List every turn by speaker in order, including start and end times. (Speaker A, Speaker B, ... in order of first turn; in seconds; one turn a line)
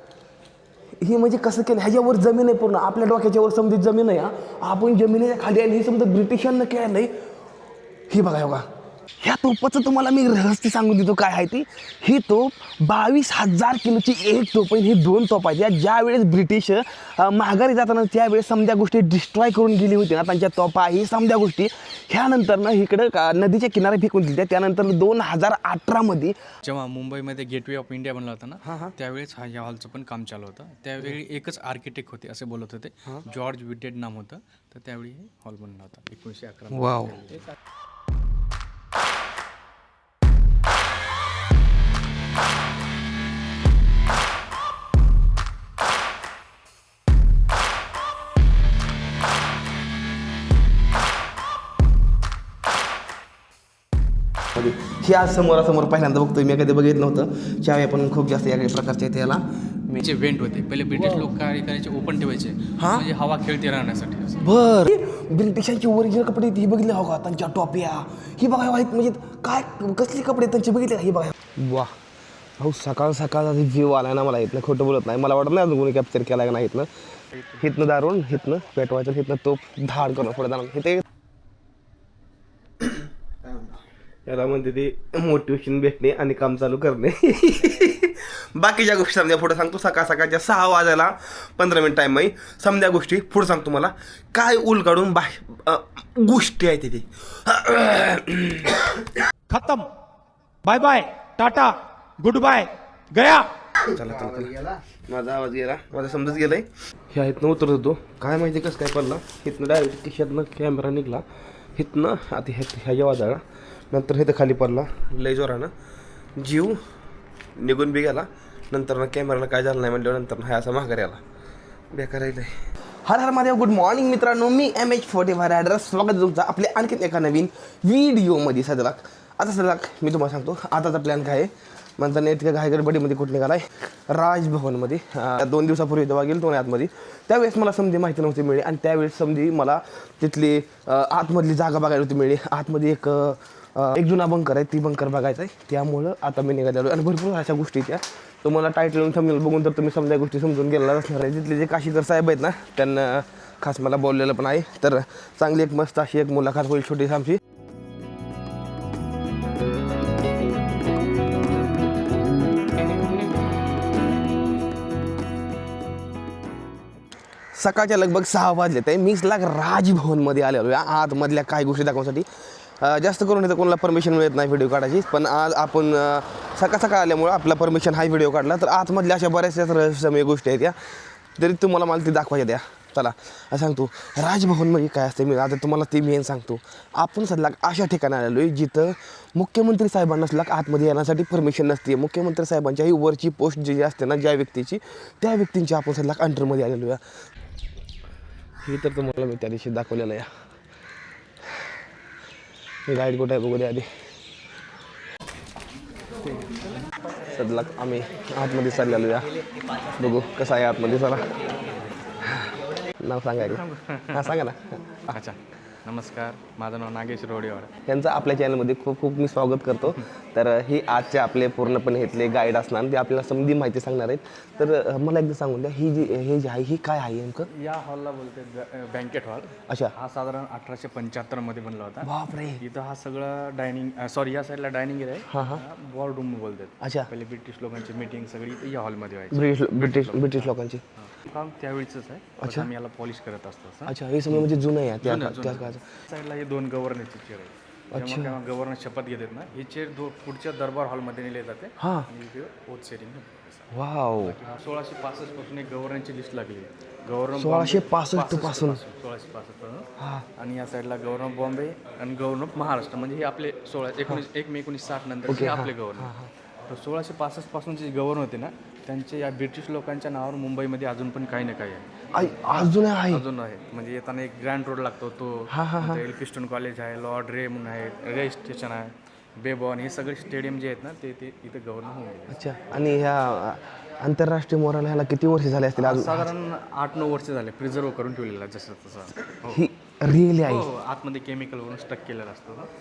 Speaker A: 1.0-7.2
Speaker A: 8.1-8.7
Speaker A: 9.2-26.4
Speaker B: 26.6-37.5
Speaker A: 28.6-28.9
Speaker A: 36.7-37.2
Speaker A: 54.5-60.0
Speaker B: 60.0-64.5
Speaker A: 62.8-63.1
Speaker A: 64.4-72.0
Speaker A: 72.6-76.9
Speaker A: 77.6-81.0
Speaker A: 82.8-99.1
Speaker C: 99.5-99.9
Speaker C: 100.6-103.5
Speaker A: 103.9-115.7
Speaker A: 116.4-116.8
Speaker A: 117.6-121.2
Speaker A: 121.9-157.4
Speaker A: 167.6-180.8
Speaker A: 181.4-197.0
Speaker A: 198.6-200.3
Speaker A: 202.9-203.9
Speaker A: 207.3-211.5
Speaker A: 212.2-215.2
Speaker B: 213.4-214.4
Speaker B: 215.1-217.7
Speaker A: 217.9-227.5
Speaker B: 227.5-244.5
Speaker A: 229.7-229.9
Speaker A: 232.0-232.6
Speaker A: 235.3-235.6
Speaker A: 236.8-237.1
Speaker A: 239.3-240.8
Speaker A: 242.4-242.7
Speaker A: 243.9-245.8
Speaker B: 245.0-266.1
Speaker A: 247.9-248.3
Speaker A: 251.8-252.1
Speaker A: 253.7-254.4
Speaker A: 257.4-258.8
Speaker A: 260.0-260.2
Speaker A: 265.3-266.3
Speaker B: 266.7-282.5
Speaker A: 272.1-273.2
Speaker A: 275.5-276.0
Speaker A: 282.3-286.3
Speaker B: 285.8-289.7
Speaker A: 289.5-290.6
Speaker B: 290.4-292.7